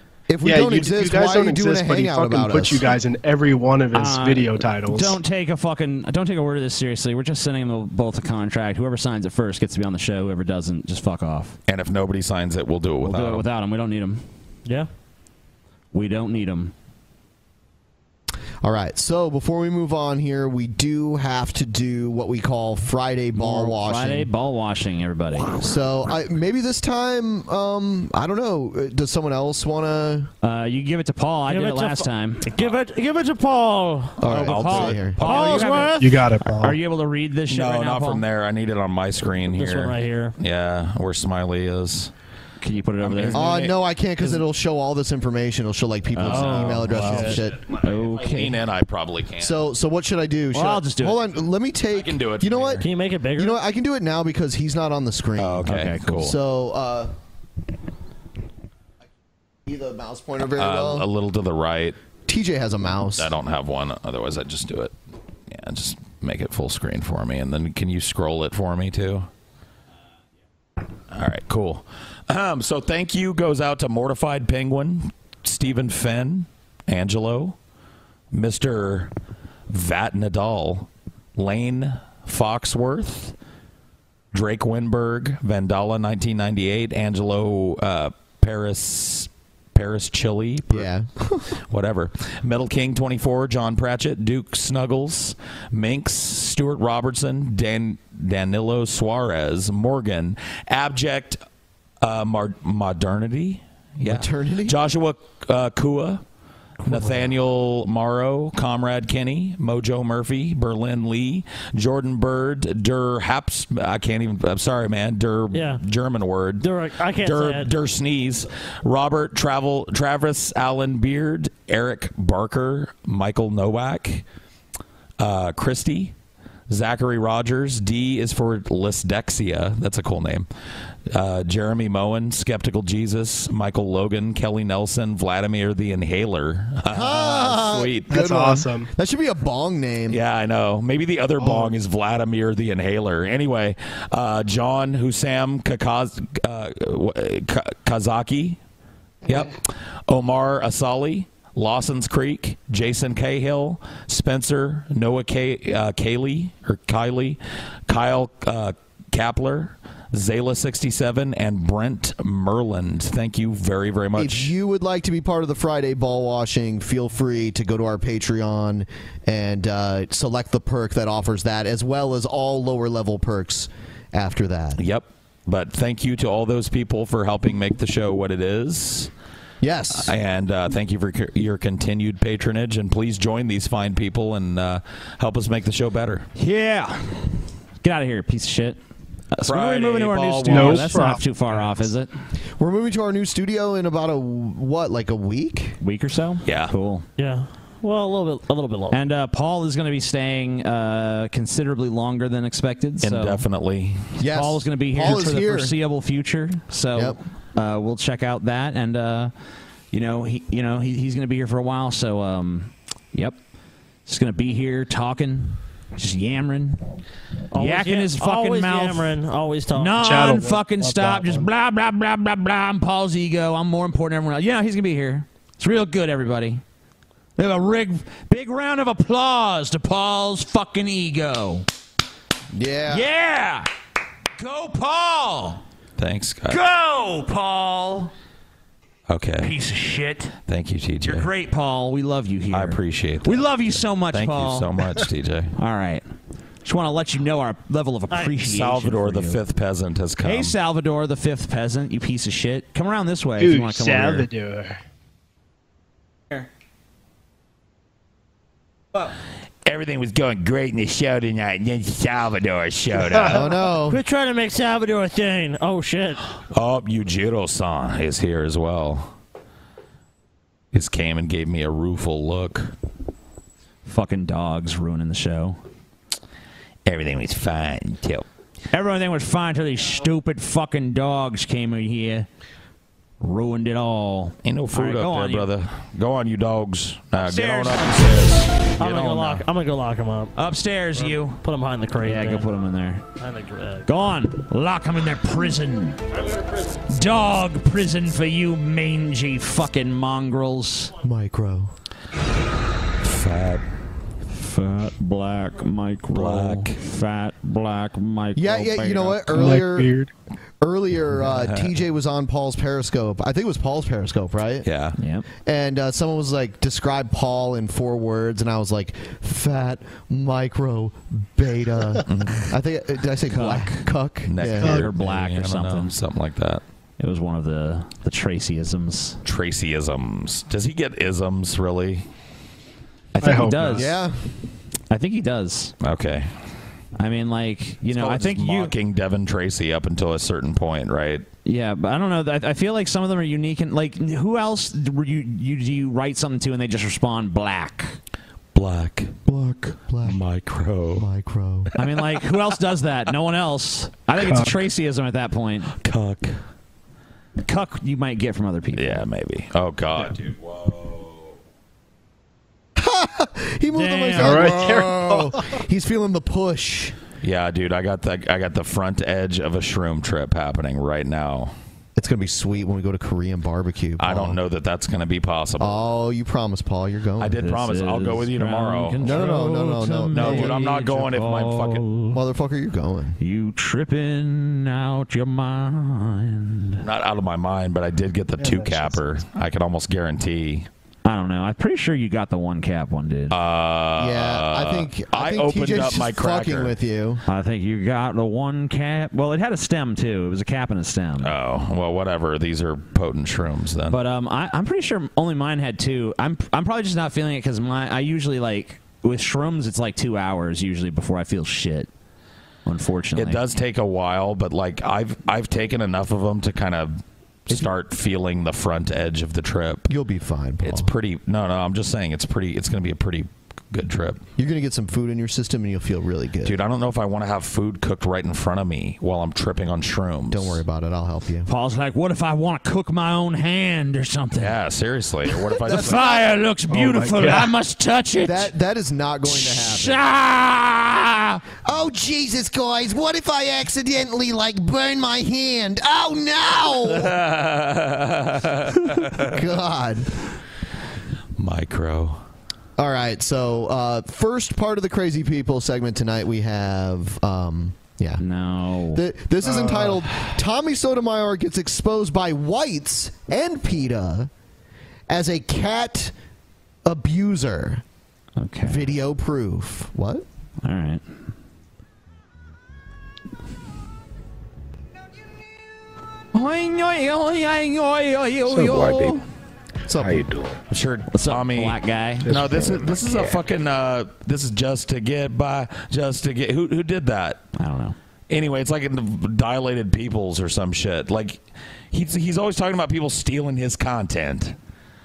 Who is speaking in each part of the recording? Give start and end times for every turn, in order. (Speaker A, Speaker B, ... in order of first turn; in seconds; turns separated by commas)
Speaker A: 0.3-2.9, Speaker B: 0.4-5.2, Speaker C: 3.9-11.6, Speaker D: 11.7-13.5, Speaker C: 13.0-14.2, Speaker C: 15.9-16.7, Speaker A: 18.6-24.3, Speaker C: 23.4-25.7, Speaker A: 25.4-30.3, Speaker C: 30.4-32.5, Speaker E: 31.5-36.1, Speaker A: 34.2-35.2, Speaker C: 34.3-38.2, Speaker D: 34.8-35.5, Speaker B: 36.0-36.8, Speaker D: 37.5-42.1, Speaker E: 39.5-40.4, Speaker C: 42.6-43.5, Speaker D: 43.0-43.8, Speaker A: 43.3-47.6, Speaker C: 46.2-48.6, Speaker E: 46.6-47.3, Speaker D: 47.7-49.6, Speaker A: 49.4-52.8, Speaker C: 50.5-51.2, Speaker D: 51.9-52.8, Speaker E: 52.8-53.6, Speaker A: 53.4-57.1, Speaker D: 55.4-56.4, Speaker C: 55.7-56.1, Speaker A: 59.7-61.1, Speaker D: 60.6-62.0, Speaker A: 62.3-63.3, Speaker D: 63.1-64.9, Speaker D: 65.5-69.3, Speaker D: 71.1-77.6, Speaker D: 78.3-79.1, Speaker D: 79.7-83.3, Speaker D: 84.3-90.9, Speaker A: 90.7-91.5, Speaker D: 91.7-101.4, Speaker D: 102.0-106.2, Speaker A: 104.0-104.8, Speaker D: 106.9-116.7, Speaker E: 115.5-115.8, Speaker E: 116.6-117.7, Speaker D: 117.2-124.2, Speaker D: 125.2-126.1, Speaker D: 126.7-130.5, Speaker D: 131.1-138.1, Speaker A: 136.9-140.2, Speaker B: 138.1-138.9, Speaker D: 140.1-148.6, Speaker B: 141.4-141.8, Speaker D: 149.3-164.5, Speaker A: 164.2-174.8, Speaker D: 174.8-179.1, Speaker A: 179.6-180.1, Speaker D: 180.0-186.3, Speaker C: 186.4-187.3, Speaker C: 187.8-188.8, Speaker C: 189.3-192.1, Speaker D: 189.5-191.1, Speaker B: 190.4-191.9, Speaker A: 192.6-195.8, Speaker C: 195.8-197.1, Speaker D: 196.4-196.7, Speaker E: 197.2-199.0, Speaker C: 198.9-203.4, Speaker D: 203.0-204.1, Speaker A: 204.2-205.8, Speaker C: 204.3-209.3, Speaker C: 209.9-213.4, Speaker C: 214.1-216.8, Speaker E: 217.5-220.3, Speaker C: 217.6-219.1, Speaker C: 219.8-226.6, Speaker B: 220.0-221.5, Speaker C: 227.4-231.7, Speaker A: 232.5-233.1, Speaker C: 232.9-233.7, Speaker C: 234.4-235.6, Speaker D: 236.0-236.6, Speaker C: 236.5-238.1, Speaker D: 239.1-239.5, Speaker C: 239.4-240.4, Speaker D: 240.5-241.3, Speaker C: 241.1-244.7, Speaker D: 242.5-245.5, Speaker C: 245.6-246.1, Speaker C: 246.6-249.4, Speaker D: 248.4-250.6, Speaker C: 250.2-254.3, Speaker B: 253.4-254.8, Speaker D: 259.6-263.5, Speaker B: 263.0-263.3, Speaker A: 263.3-264.0, Speaker E: 263.9-266.2, Speaker D: 266.5-269.1, Speaker D: 270.7-272.7, Speaker C: 273.9-275.6, Speaker D: 276.9-278.2, Speaker C: 278.7-282.3, Speaker C: 283.2-285.5, Speaker D: 284.4-289.4, Speaker C: 287.2-288.4, Speaker E: 288.8-290.3, Speaker C: 290.4-291.4, Speaker E: 290.9-292.5, Speaker C: 292.0-293.0, Speaker E: 293.2-293.9, Speaker C: 293.9-296.0, Speaker C: 296.9-300.9, Speaker A: 301.0-301.7, Speaker D: 303.0-303.6, Speaker C: 304.3-309.4, Speaker D: 306.1-306.8, Speaker A: 308.4-309.9, Speaker B: 309.3-310.1, Speaker A: 310.6-314.7, Speaker D: 311.2-311.7, Speaker D: 314.6-315.0, Speaker C: 315.0-315.3, Speaker A: 315.5-324.9, Speaker D: 322.1-322.5, Speaker C: 323.3-323.9, Speaker D: 324.2-326.6, Speaker C: 324.6-325.9, Speaker C: 327.0-329.2, Speaker D: 329.2-332.1, Speaker B: 333.2-333.9, Speaker C: 333.2-333.9, Speaker A: 333.7-334.2, Speaker C: 334.9-335.7, Speaker D: 335.8-336.3, Speaker C: 337.0-338.7, Speaker D: 337.9-341.2, Speaker C: 341.4-348.0, Speaker D: 348.5-349.2, Speaker A: 349.3-350.2, Speaker D: 350.0-351.1, Speaker A: 351.0-351.7, Speaker C: 351.8-355.7, Speaker B: 354.2-354.5, Speaker D: 355.8-356.4, Speaker C: 357.4-359.0, Speaker D: 358.8-361.3, Speaker A: 362.8-366.9, Speaker E: 363.7-364.7, Speaker B: 364.2-365.5, Speaker D: 367.2-371.5, Speaker A: 372.0-374.4, Speaker D: 374.0-375.8, Speaker A: 375.6-377.4, Speaker D: 377.2-379.4, Speaker C: 377.4-382.2, Speaker A: 379.0-380.7, Speaker D: 380.1-381.9, Speaker A: 382.1-383.2, Speaker C: 383.2-386.8, Speaker D: 386.8-390.7, Speaker B: 388.4-389.0, Speaker C: 391.1-393.4, Speaker D: 393.3-396.8, Speaker A: 394.0-397.2, Speaker C: 397.3-401.3, Speaker D: 401.2-404.0, Speaker C: 403.9-411.9, Speaker C: 412.6-413.4, Speaker D: 413.2-419.9, Speaker A: 419.9-420.9, Speaker D: 420.6-424.2, Speaker A: 424.4-426.6, Speaker D: 426.4-430.6, Speaker A: 430.3-431.5, Speaker C: 431.5-434.5, Speaker D: 434.4-436.1, Speaker A: 435.6-436.2, Speaker C: 435.7-438.5, Speaker B: 436.7-437.5, Speaker A: 438.2-440.0, Speaker C: 439.3-441.4, Speaker A: 441.6-447.1, Speaker D: 446.8-449.4, Speaker A: 449.1-450.1, Speaker D: 451.4-452.2, Speaker A: 452.8-458.2, Speaker C: 458.2-459.0, Speaker A: 458.9-464.3, Speaker B: 459.4-460.0, Speaker A: 465.1-466.1, Speaker A: 466.9-467.8, Speaker C: 468.4-468.9, Speaker A: 468.7-470.2, Speaker C: 470.6-471.0, Speaker C: 476.3-479.2, Speaker F: 478.5-479.2, Speaker A: 479.9-480.2, Speaker F: 479.9-480.6, Speaker D: 480.7-487.4, Speaker C: 481.1-482.4, Speaker F: 482.2-483.4, Speaker C: 487.6-488.0, Speaker D: 488.3-494.6